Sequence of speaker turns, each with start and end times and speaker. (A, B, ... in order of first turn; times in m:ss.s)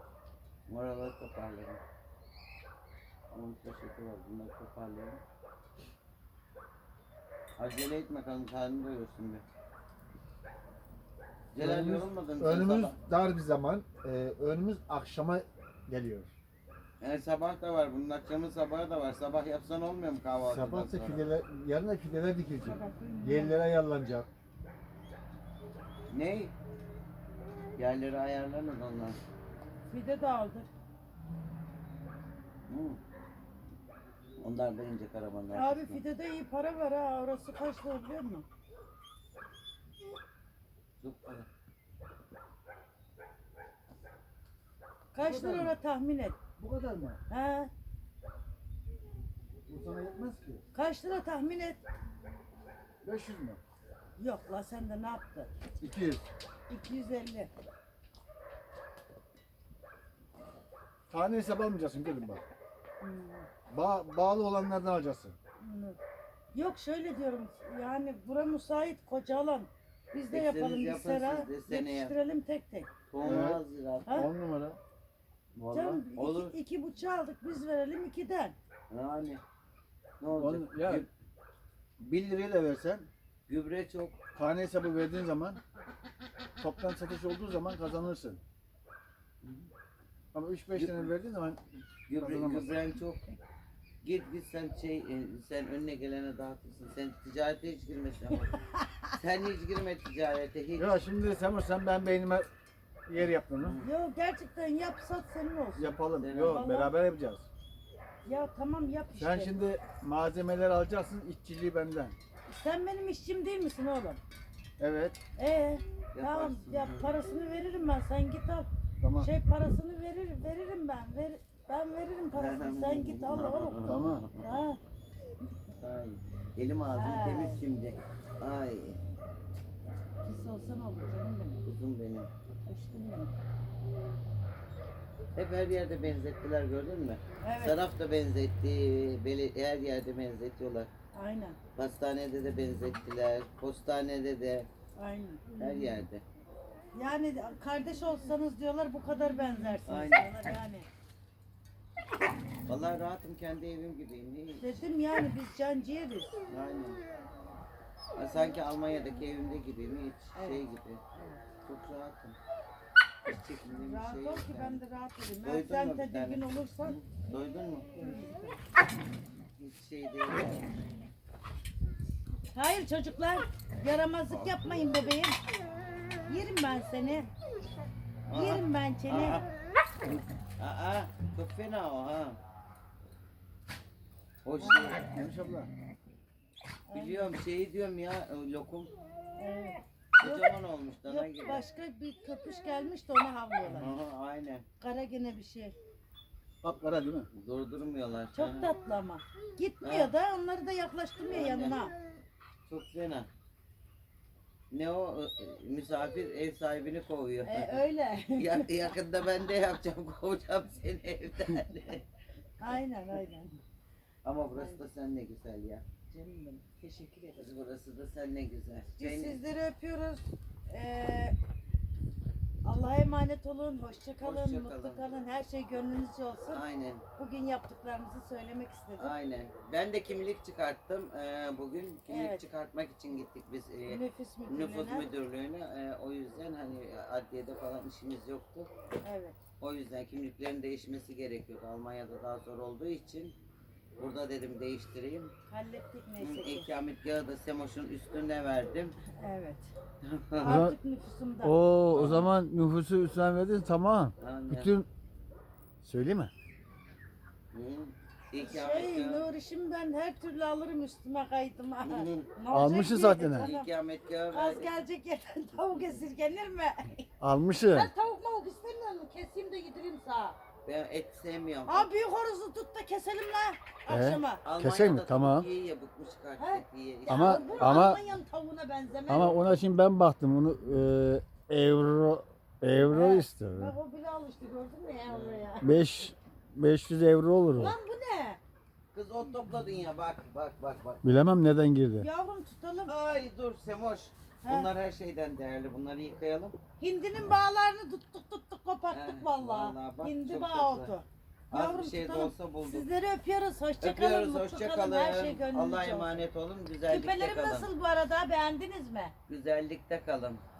0:00.7-0:01.8 A
0:03.3-0:05.2 A
0:07.6-0:09.4 A
0:11.5-0:13.0 A
0:11.6-0:16.3 B
0:17.0-0:21.3 A
0:20.4-0:24.3 B
0:22.6-0:23.6 C
0:26.1-0:26.5 A
0:27.8-0:29.2 A
0:29.9-0:30.7 C
0:32.7-0:33.0 A
0:34.4-0:36.0 A
0:35.5-0:38.4 C
0:41.0-0:41.5 A
0:45.1-0:46.4 C
0:45.2-0:45.8 B
0:46.6-0:47.2 B
0:47.3-0:47.7 C
0:49.6-0:50.6 B
0:50.7-0:51.8 C
0:53.0-0:53.6 B
0:54.2-0:55.5 C
0:55.8-0:56.3 B
0:56.7-0:57.5 C
1:01.1-1:02.4 B
1:03.0-1:03.5 C
1:03.7-1:05.4 B
1:05.6-1:06.0 C
1:06.5-1:12.9 C
1:10.3-1:12.1 A
1:13.1-1:14.2 A
1:13.2-1:14.8 B
1:15.6-1:16.5 A
1:15.7-1:18.6 C
1:18.9-1:19.4 A
1:20.2-1:21.1 A
1:20.3-1:21.0 B
1:22.0-1:23.1 B
1:23.5-1:24.2 A
1:24.3-1:25.6 B
1:26.6-1:28.4 B
1:29.4-1:29.7 A
1:30.3-1:31.6 B
1:30.7-1:31.1 A
1:32.1-1:33.2 A
1:32.2-1:32.8 B
1:34.0-1:38.5 A
1:38.5-1:39.1 C
1:39.1-1:41.0 A
1:40.7-1:42.5 B
1:43.1-1:43.8 B
1:43.6-1:43.9 A
1:43.8-1:46.9 C
1:45.8-1:47.5 B
1:46.2-1:46.6 A
1:48.2-1:49.6 C
1:49.2-1:52.2 B
1:52.5-1:54.2 C
1:54.8-1:55.2 B
1:55.4-2:04.8 C
1:56.1-1:57.1 A
1:59.0-1:59.3 B
2:02.3-2:04.5 A
2:03.8-2:04.2 B
2:05.8-2:09.0 A
2:07.0-2:07.6 C
2:10.2-2:11.6 C
2:11.6-2:12.3 A
2:12.6-2:13.3 C
2:15.3-2:20.9 A
2:17.4-2:17.8 C
2:21.1-2:21.6 C
2:21.8-2:24.7 A
2:25.0-2:25.6 C
2:25.6-2:26.2 A
2:26.9-2:30.9 C
2:29.8-2:30.3 A
2:32.7-2:34.8 A
2:34.6-2:36.3 C
2:36.5-2:37.0 A
2:38.2-2:41.0 A
2:40.3-2:41.4 C
2:41.6-2:42.4 A
2:43.2-2:44.8 A
2:43.7-2:47.0 C
2:45.4-2:48.0 A
2:47.9-2:48.6 C
2:49.6-2:50.6 A
2:52.5-2:55.4 C
2:56.3-2:57.3 C
2:58.3-2:59.4 A
2:58.3-2:59.4 C
3:00.6-3:02.4 A
3:04.4-3:05.1 A
3:04.6-3:05.0 C
3:05.1-3:05.7 B
3:06.9-3:07.3 C
3:06.9-3:08.9 A
3:09.4-3:13.9 C
3:10.2-3:11.6 A
3:13.6-3:14.6 A
3:14.8-3:15.7 C
3:16.6-3:17.3 B
3:17.3-3:18.7 A
3:18.3-3:21.9 C
3:19.8-3:20.1 A
3:21.2-3:21.8 A
3:22.7-3:23.3 A
3:24.7-3:27.8 A
3:27.4-3:28.8 C
3:28.4-3:32.0 A
3:32.6-3:33.6 C
3:34.2-3:35.8 A
3:34.5-3:34.8 C
3:36.1-3:37.4 C
3:37.4-3:39.4 A
3:39.0-3:41.3 C
3:42.6-3:46.6 C
3:44.2-3:45.0 A
3:46.5-3:47.0 A
3:47.2-3:49.1 C
3:49.0-3:58.7 A
3:52.1-3:52.4 C
3:53.9-3:55.1 C
3:59.0-3:59.4 C
3:59.6-4:03.4 A
4:04.0-4:05.3 A
4:05.5-4:06.7 C
4:06.2-4:08.9 A
4:09.2-4:09.7 C
4:10.0-4:10.6 A
4:10.4-4:11.6 C
4:10.4-4:10.8 B
4:11.4-4:14.9 B
4:11.9-4:12.3 A
4:14.2-4:14.7 A
4:15.8-4:16.3 B
4:17.5-4:19.3 A
4:18.4-4:23.7 C
4:21.8-4:22.3 A
4:22.5-4:23.5 B
4:23.3-4:24.7 A
4:24.3-4:27.0 C
4:27.2-4:27.9 B
4:27.6-4:30.4 C
4:30.6-4:31.9 A
4:31.7-4:34.4 C
4:33.9-4:35.5 B
4:34.4-4:38.0 A
4:36.4-4:39.4 C
4:37.1-4:38.0 B
4:39.1-4:43.7 B
4:42.9-4:45.8 C
4:45.0-4:45.5 A
4:45.6-4:47.7 B
4:47.5-4:48.4 C
4:48.9-4:51.2 A
4:51.0-4:52.1 B
4:52.0-4:52.9 C
4:52.9-4:56.5 A
4:54.4-4:54.7 C
4:56.8-5:06.2 C
4:58.9-5:01.0 A
5:01.5-5:02.9 A
5:03.8-5:07.7 A
5:06.9-5:09.1 C
5:09.3-5:10.4 A